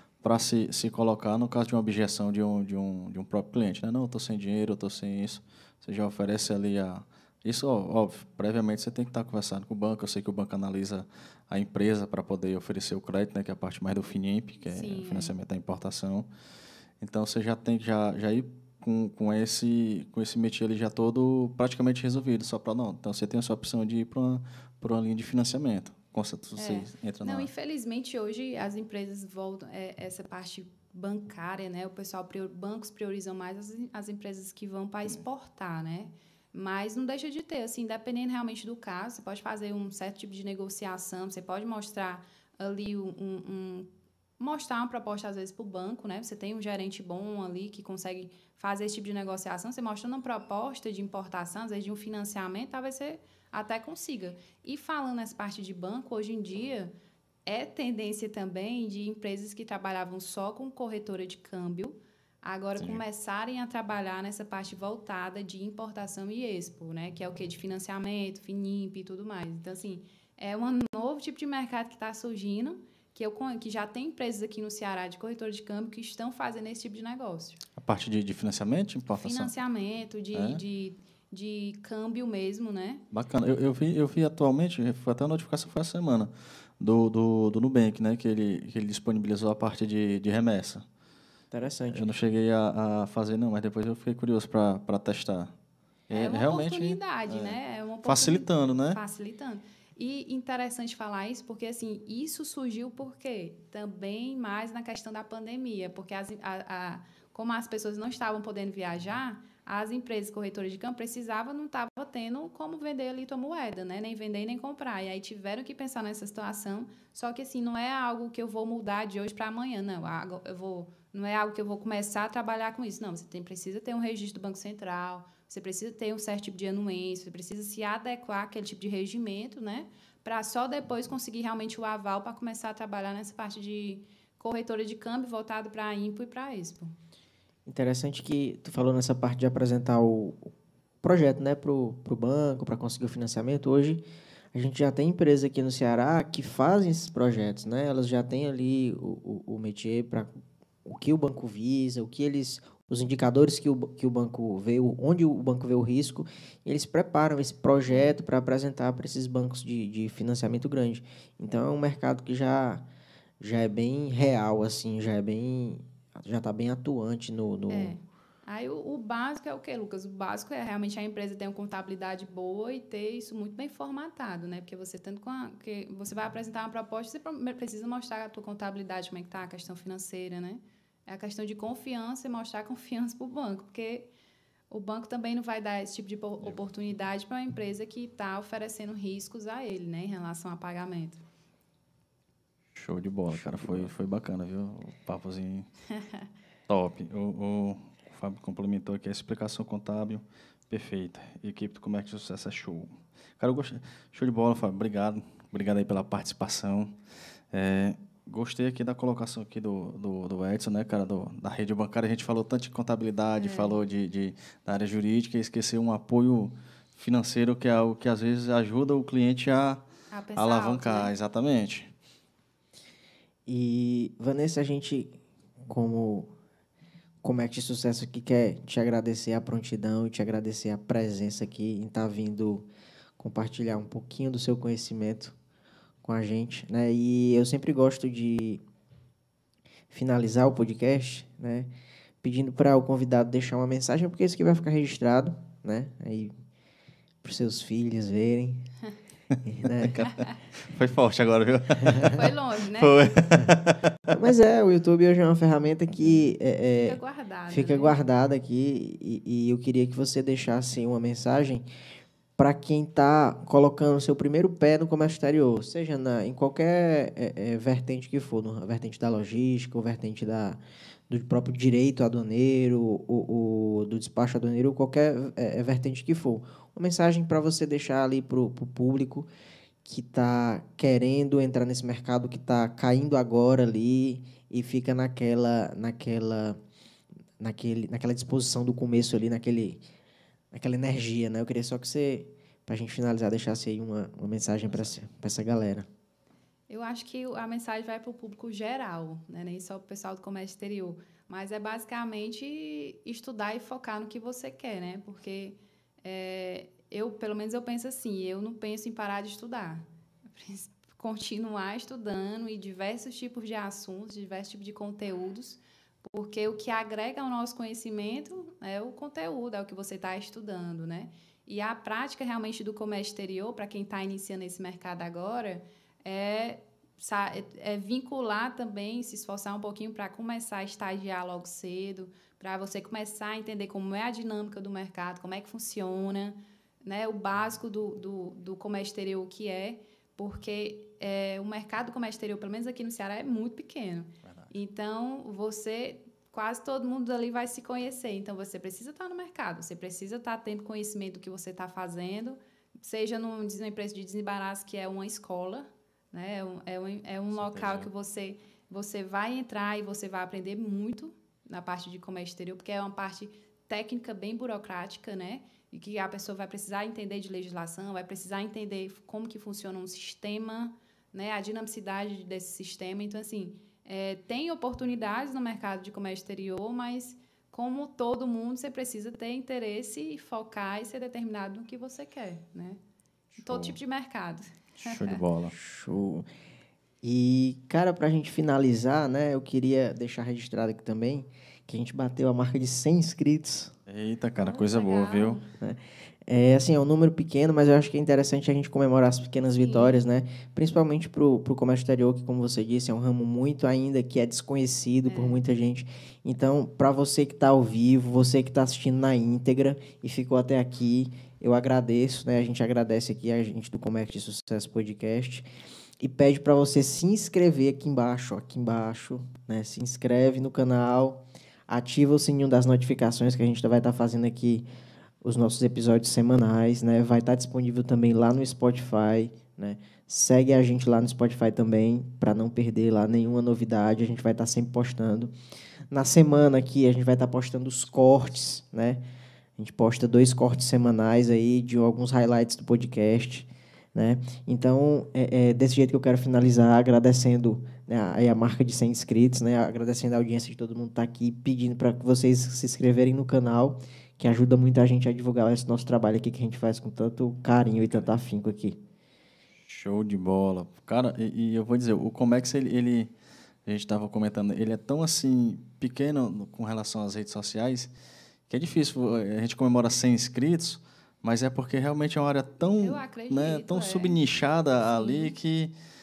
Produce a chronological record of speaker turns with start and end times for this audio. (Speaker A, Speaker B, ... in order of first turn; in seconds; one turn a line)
Speaker A: 0.2-16.3
Speaker B: 14.7-15.3
Speaker A: 17.0-27.5
Speaker B: 26.6-43.9
Speaker B: 44.4-56.9
Speaker B: 57.5-77.6
Speaker A: 62.8-63.0
Speaker A: 77.8-79.5
Speaker B: 79.2-83.0
Speaker A: 80.3-80.6
Speaker A: 83.1-90.8
Speaker C: 91.5-92.1
Speaker A: 91.9-95.5
Speaker A: 96.1-99.0
Speaker B: 96.1-136.9
Speaker C: 137.7-144.0
Speaker C: 144.5-150.3
Speaker C: 150.8-162.8
Speaker C: 163.4-167.9
Speaker B: 167.7-184.1
Speaker B: 184.7-191.2
Speaker A: 192.8-195.7
Speaker C: 193.3-193.9
Speaker A: 196.7-207.0
Speaker A: 207.5-219.8
Speaker B: 213.4-213.8
Speaker B: 220.1-221.1
Speaker A: 220.4-221.9
Speaker C: 223.5-225.2
Speaker C: 225.7-226.3
Speaker C: 227.2-232.7
Speaker C: 233.2-235.3
Speaker C: 236.0-238.6
Speaker C: 239.9-241.7
Speaker C: 242.2-246.3
Speaker C: 247.2-248.7
Speaker C: 249.4-250.1
Speaker A: 249.8-254.2
Speaker B: 252.1-253.1
Speaker C: 254.1-257.0
Speaker B: 256.8-258.0
Speaker C: 257.5-261.7
Speaker C: 262.4-279.3
Speaker C: 279.9-286.6
Speaker C: 287.4-289.8
Speaker C: 290.5-295.9
Speaker A: 294.6-294.9
Speaker B: 296.7-309.8
Speaker B: 310.3-382.8
Speaker A: 344.2-344.5
Speaker A: 357.3-357.9
Speaker A: 383.3-383.8
Speaker B: 383.4-385.2
Speaker A: 384.8-385.5
Speaker C: 385.5-386.3
Speaker C: 387.0-393.7
Speaker A: 393.9-395.4
Speaker B: 394.4-395.5
Speaker C: 395.6-415.5
Speaker B: 399.5-400.0
Speaker B: 405.1-405.4
Speaker C: 416.0-424.6
Speaker C: 425.2-435.3
Speaker C: 435.9-439.0
Speaker C: 439.6-458.8
Speaker A: 459.7-463.1
Speaker A: 463.6-467.9
Speaker A: 468.5-475.7
Speaker B: 472.8-474.2
Speaker B: 474.8-475.4